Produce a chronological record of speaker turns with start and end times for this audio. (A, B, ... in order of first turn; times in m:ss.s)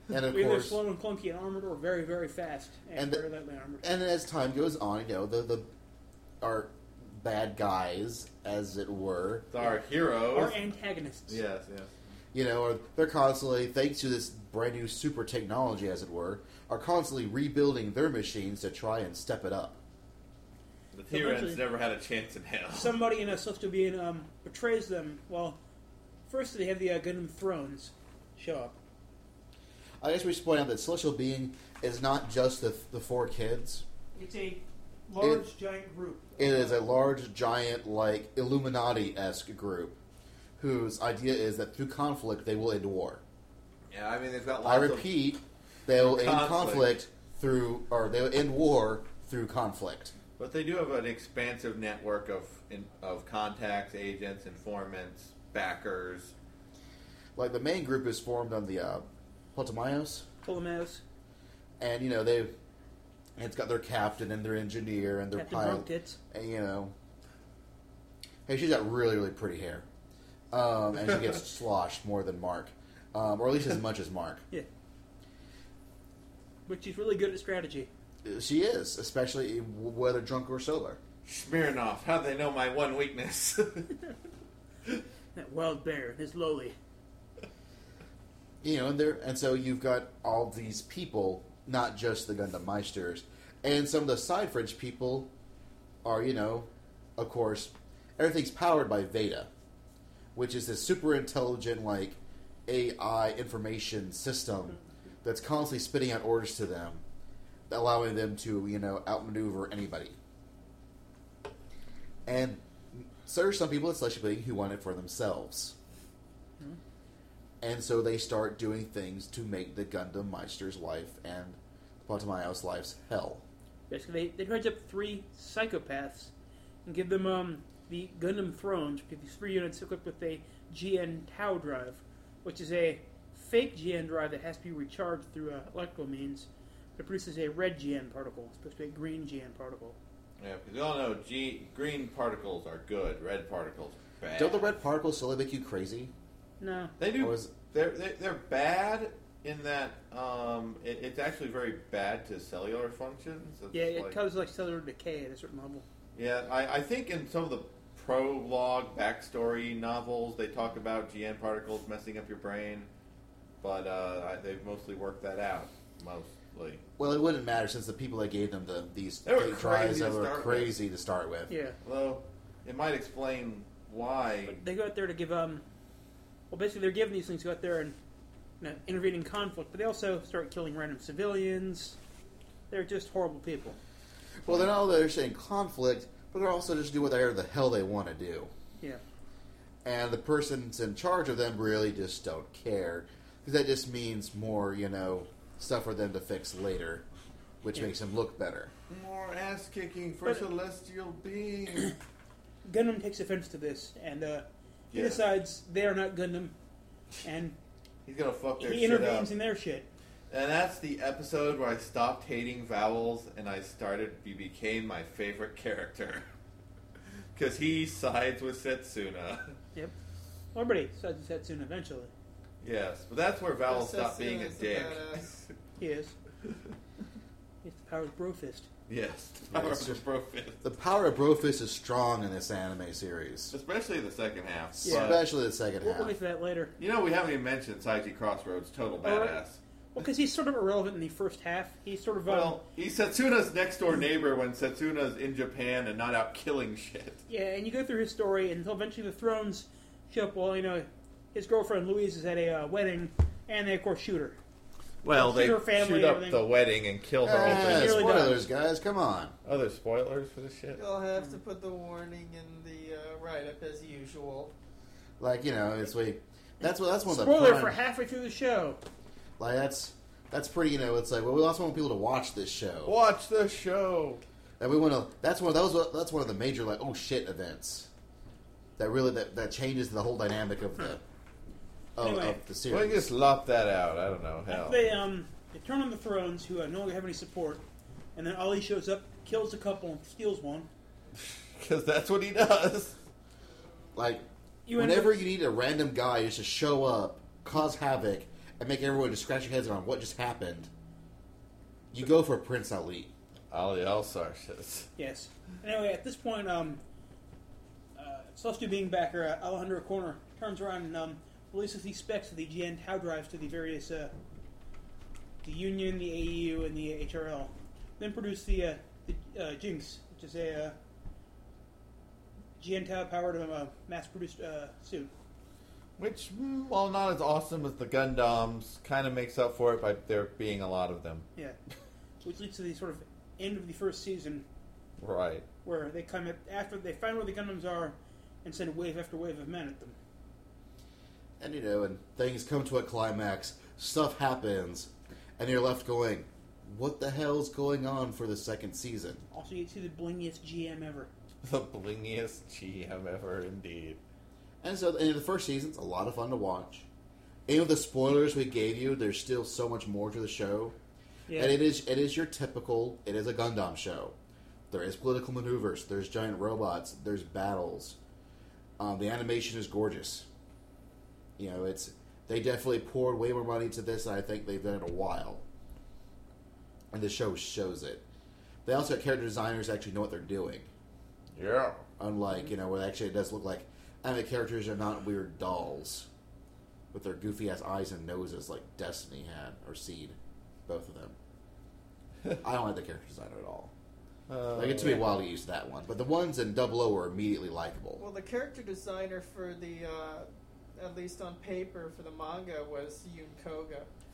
0:00.1-0:00.8 A
0:00.3-0:03.8 B
0:03.0-0:03.2 A
0:03.8-0:05.7 A
0:06.4-0:09.5 A
0:09.5-0:10.6 C
0:10.3-0:11.4 B
0:11.3-0:11.9 C
0:12.3-0:19.8 A
0:20.9-0:23.0 C
0:21.1-0:21.6 B
0:22.7-0:25.6 B
0:26.3-0:28.8 B
0:30.0-0:33.8 A
0:34.1-0:36.8 B
0:35.2-0:35.4 A
0:36.4-0:40.0 A
0:40.6-0:43.2 A
0:43.9-0:45.1 C
0:44.6-0:50.1 A
0:45.9-0:46.9 C
0:50.4-0:56.3 C
0:57.4-1:00.3 A
1:00.4-1:01.0 B
1:01.8-1:02.5 A
1:03.4-1:06.9 A
1:05.4-1:06.2 B
1:08.5-1:09.8 A
1:10.5-1:14.4 A
1:16.6-1:17.9 B
1:18.2-1:21.0 A
1:21.2-1:23.9 C
1:25.4-1:26.7 B
1:28.6-1:35.3 A
1:36.0-1:39.5 A
1:40.4-1:47.0 A
1:47.7-1:50.2 A
1:52.3-1:55.7 A
1:57.6-2:03.4 A
2:03.9-2:06.3 B
2:06.8-2:20.0 B
2:20.4-2:24.7 C
2:24.4-2:26.1 A
2:26.6-2:26.9 B
2:27.0-2:34.2 C
2:27.2-2:27.5 A
2:33.7-2:35.8 B
2:36.1-2:42.9 C
2:43.6-2:46.8 C
2:47.0-2:51.5 A
2:49.2-2:50.8 C
2:51.5-2:51.8 B
2:51.8-2:54.6 C
2:54.4-2:55.6 B
2:56.5-2:58.0 B
2:58.6-3:02.0 B
3:02.7-3:03.8 B
3:04.4-3:08.5 A
3:09.8-3:17.0 A
3:17.6-3:18.7 A
3:18.9-3:21.9 C
3:22.6-3:26.5 B
3:24.9-3:25.3 C
3:27.2-3:27.6 B
3:28.0-3:29.3 C
3:28.6-3:29.9 B
3:30.3-3:36.3 C
3:37.4-3:39.6 C
3:40.5-3:42.1 B
3:42.6-3:45.5 C
3:43.7-3:45.4 D
3:45.8-3:46.1 B
3:47.6-3:48.7 B
3:48.9-3:50.6 C
3:49.5-3:50.0 A
3:50.6-3:53.5 A
3:53.5-3:55.2 C
3:54.8-3:56.1 A
3:54.8-3:55.3 B
3:55.8-3:56.7 B
3:56.8-3:59.6 C
3:59.0-3:59.4 B
3:59.9-4:02.6 B
4:02.3-4:07.2 C
4:07.3-4:14.4 B
4:15.0-4:18.2 C
4:15.1-4:16.4 B
4:17.2-4:19.4 A
4:17.4-4:18.5 B
4:19.4-4:20.8 C
4:20.8-4:24.5 D
4:25.2-4:27.8 A
4:27.1-4:28.8 B
4:29.4-4:32.9 A
4:32.8-4:34.2 C
4:34.6-4:37.9 A
4:38.8-4:41.0 A
4:42.0-4:43.1 A
4:42.0-4:42.4 B
4:42.7-4:44.8 C
4:44.5-4:47.6 B
4:48.1-4:50.7 B
4:51.2-4:53.0 C
4:54.0-5:00.7 A
4:54.6-4:55.2 B
5:01.9-5:03.1 A
5:03.5-5:04.9 C
5:05.0-5:06.8 B
5:07.9-5:14.1 B
5:15.4-5:20.8 B
5:22.6-5:25.1 B
5:26.0-5:31.3 C
5:32.2-5:34.4 B
5:35.0-5:35.4 C
5:35.6-5:40.0 B
5:41.4-5:49.2 A
5:49.3-5:51.1 B
5:51.4-5:54.0 C
5:54.6-5:56.9 A
5:57.5-6:00.7 A
6:01.3-6:01.6 B
6:01.3-6:04.1 A
6:04.7-6:08.0 A
6:08.8-6:10.3 A
6:11.4-6:15.4 A
6:16.9-6:18.0 A
6:18.6-6:20.7 A
6:21.3-6:21.8 C
6:22.0-6:26.1 A
6:26.9-6:30.2 A
6:30.7-6:31.2 A
6:32.4-6:33.7 A
6:34.3-6:35.1 C
6:34.5-6:38.0 A
6:38.0-6:43.9 D